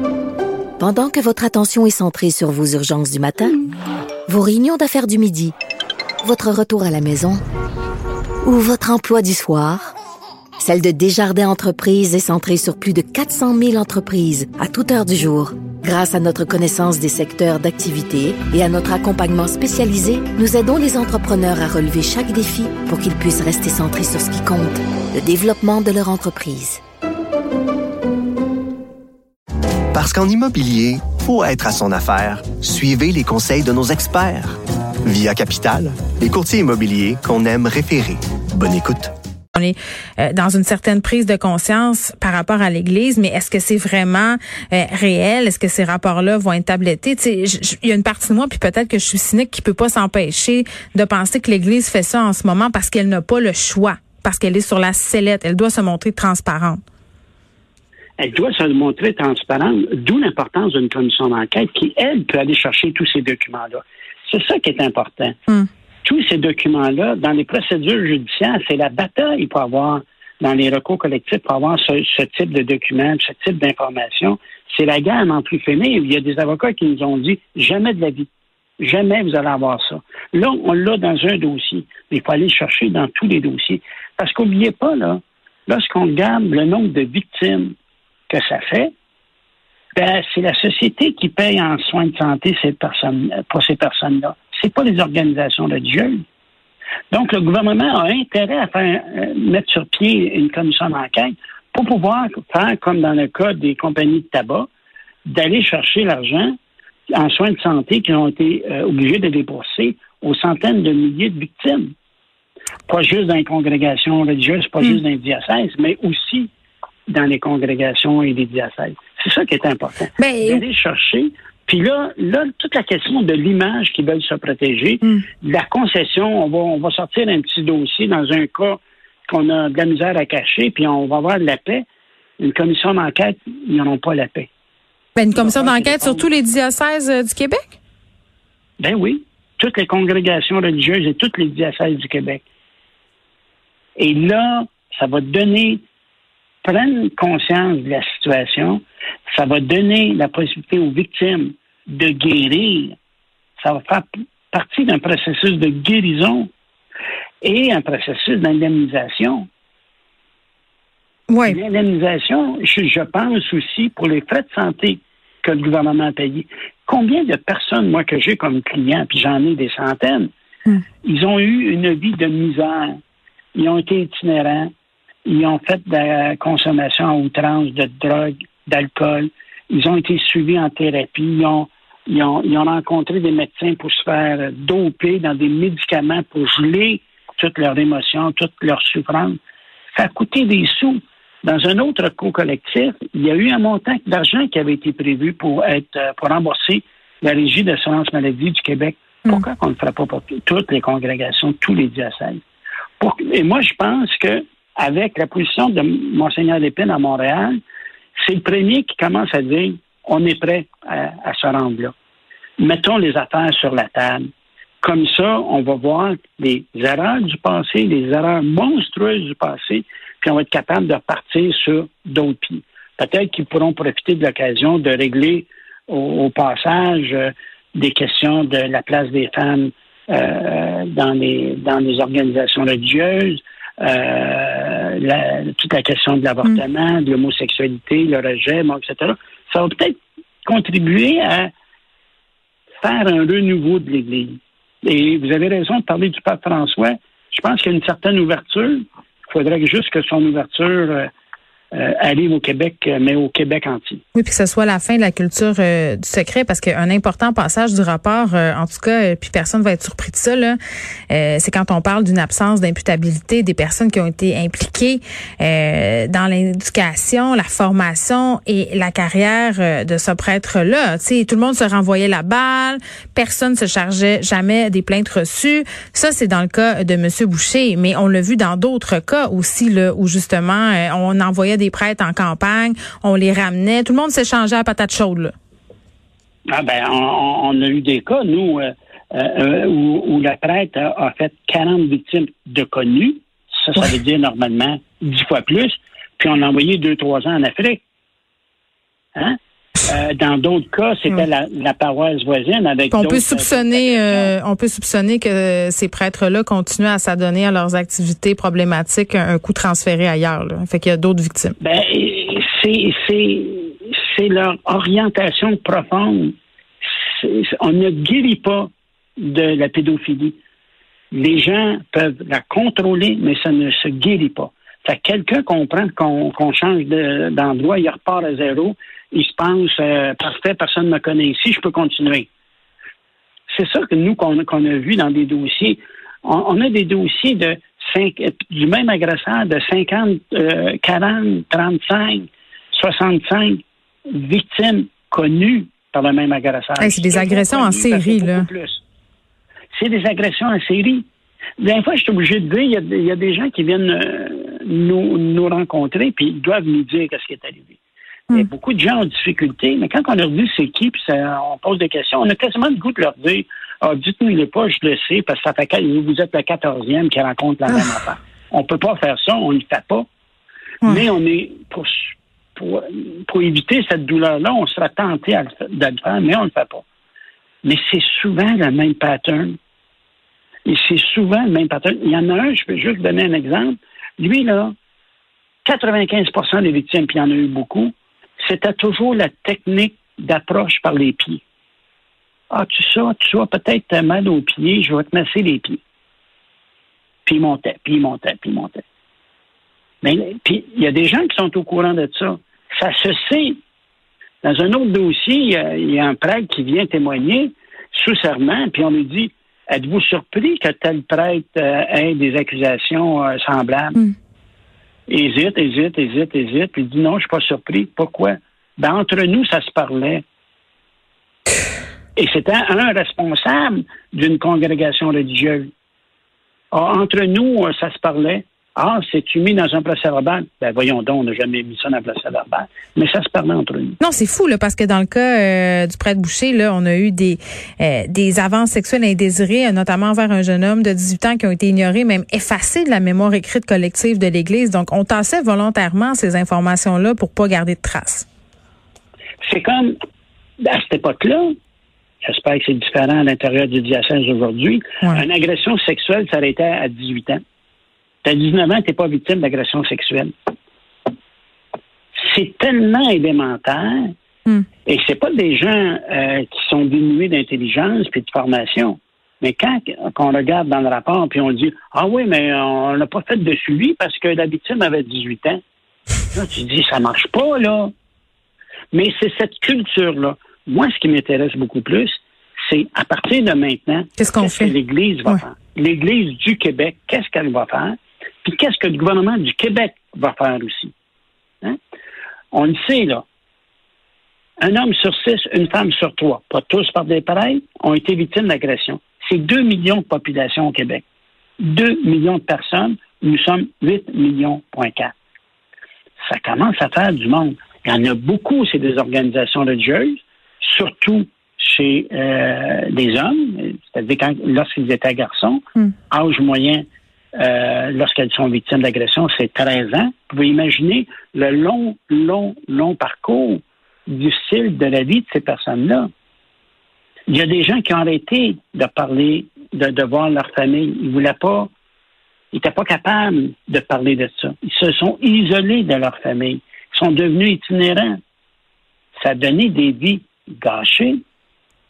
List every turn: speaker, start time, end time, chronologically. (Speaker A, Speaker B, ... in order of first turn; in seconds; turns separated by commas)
Speaker A: 0.8-3.5, Speaker A: 4.3-5.5, Speaker A: 6.2-7.4, Speaker A: 8.4-9.9, Speaker A: 10.6-26.8, Speaker B: 29.9-39.1, Speaker C: 39.5-56.8, Speaker D: 58.2-65.4, Speaker D: 66.0-78.3, Speaker D: 78.8-87.7, Speaker D: 88.3-88.9, Speaker D: 90.0-96.2, Speaker D: 97.1-104.7, Speaker D: 105.3-106.6, Speaker D: 107.1-111.9, Speaker D: 112.9-116.5, Speaker D: 117.1-131.9, Speaker C: 120.2-120.6, Speaker D: 132.4-134.5, Speaker C: 135.2-137.8, Speaker D: 135.3-136.3, Speaker D: 138.8-142.4, Speaker D: 144.0-145.8, Speaker D: 146.6-152.9, Speaker D: 153.6-156.5, Speaker D: 157.4-159.5, Speaker C: 161.3-161.6, Speaker D: 161.5-170.3, Speaker D: 171.0-173.0, Speaker D: 173.6-174.7, Speaker D: 175.3-189.4, Speaker D: 189.9-202.4, Speaker D: 203.0-207.6, Speaker D: 208.2-211.9, Speaker D: 212.6-214.3, Speaker D: 214.8-241.5, Speaker D: 242.8-251.1, Speaker D: 251.7-254.0, Speaker C: 254.2-260.6, Speaker C: 261.1-285.3, Speaker D: 286.5-297.8, Speaker D: 299.1-304.3, Speaker C: 302.9-311.6, Speaker D: 311.6-316.3, Speaker D: 316.9-320.4, Speaker D: 321.1-332.3, Speaker D: 333.5-348.8, Speaker C: 346.8-348.5, Speaker D: 349.7-351.1, Speaker D: 351.6-357.8, Speaker D: 358.3-370.1, Speaker D: 370.8-376.8, Speaker D: 377.6-379.6, Speaker D: 380.7-384.7, Speaker D: 385.6-391.4, Speaker D: 392.5-395.8, Speaker D: 397.3-398.8, Speaker D: 400.0-403.6, Speaker D: 404.4-414.0, Speaker D: 415.1-420.2, Speaker D: 422.2-425.7, Speaker D: 426.7-434.0, Speaker C: 434.0-448.3, Speaker D: 449.4-449.9, Speaker D: 450.6-451.5, Speaker D: 452.2-457.4, Speaker D: 458.2-460.3, Speaker D: 462.2-464.1, Speaker D: 464.9-475.6, Speaker D: 476.3-477.9, Speaker D: 478.9-490.9, Speaker C: 484.2-484.7, Speaker D: 492.5-493.2, Speaker D: 494.6-501.0, Speaker D: 501.6-505.1, Speaker D: 506.2-516.8, Speaker D: 517.4-526.1, Speaker D: 527.3-531.7, Speaker D: 532.5-538.2, Speaker D: 539.2-541.2